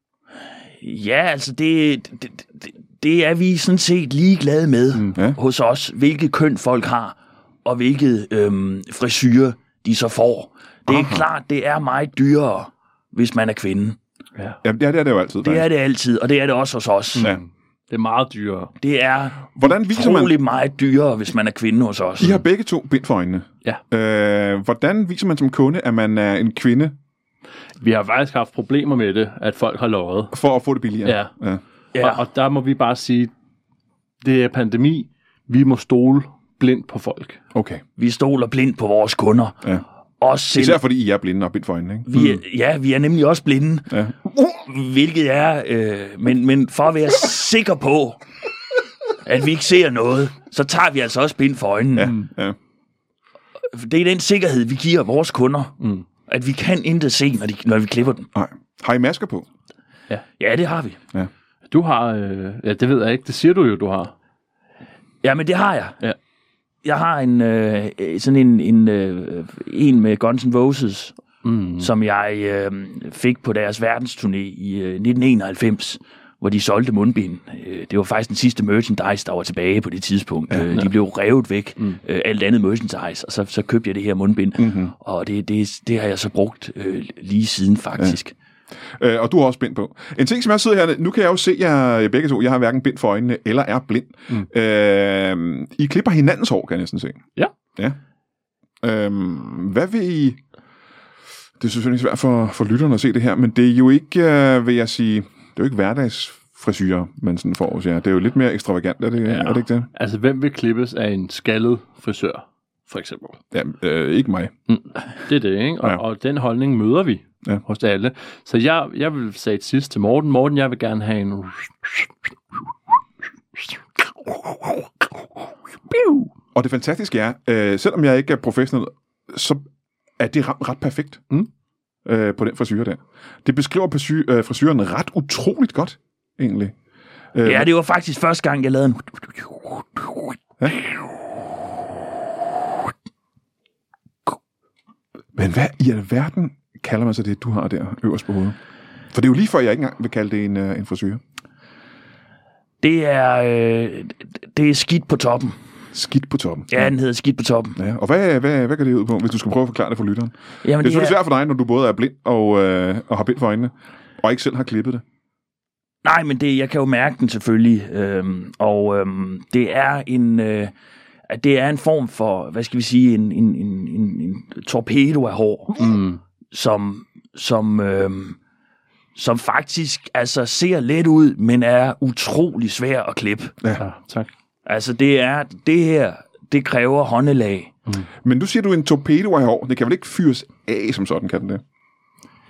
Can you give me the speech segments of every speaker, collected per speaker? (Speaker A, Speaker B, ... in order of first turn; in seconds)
Speaker A: 0.8-14.0, 15.4-17.3, 18.8-22.4, 31.9-32.2, 38.0-39.7, 40.2-40.8, 42.1-48.2, 49.2-52.1, 53.7-55.8, 56.3-58.3, 60.4-61.0, 65.2-66.0, 66.8-71.2, 71.8-88.3, 137.4-140.4, 152.8-155.6, 156.7-157.8, 160.6-161.2, 166.0-170.7, 171.3-175.9, 176.5-178.4, 179.2-183.6, 184.7-187.7
Speaker B: 10.9-11.2, 14.6-15.7, 19.6-20.4, 22.2-26.9, 30.3-31.6, 37.5-37.8, 40.6-42.4, 52.0-52.6, 58.4-59.5, 84.6-84.9, 89.0-97.2, 98.8-100.4, 101.6-109.9, 113.5-114.5, 126.5-129.7, 130.2-131.2, 132.1-136.7, 137.3-137.7, 145.4-148.6, 149.1-151.2, 155.9-156.9, 157.8-165.0, 188.2-191.6
Speaker C: 17.2-18.7, 27.8-30.4, 31.1-31.3, 32.0-33.3, 34.2-37.4, 55.8-56.1, 61.7-64.1, 71.4-71.9, 109.3-113.4, 114.7-122.6, 123.5-126.3, 175.8-176.2, 183.8-184.3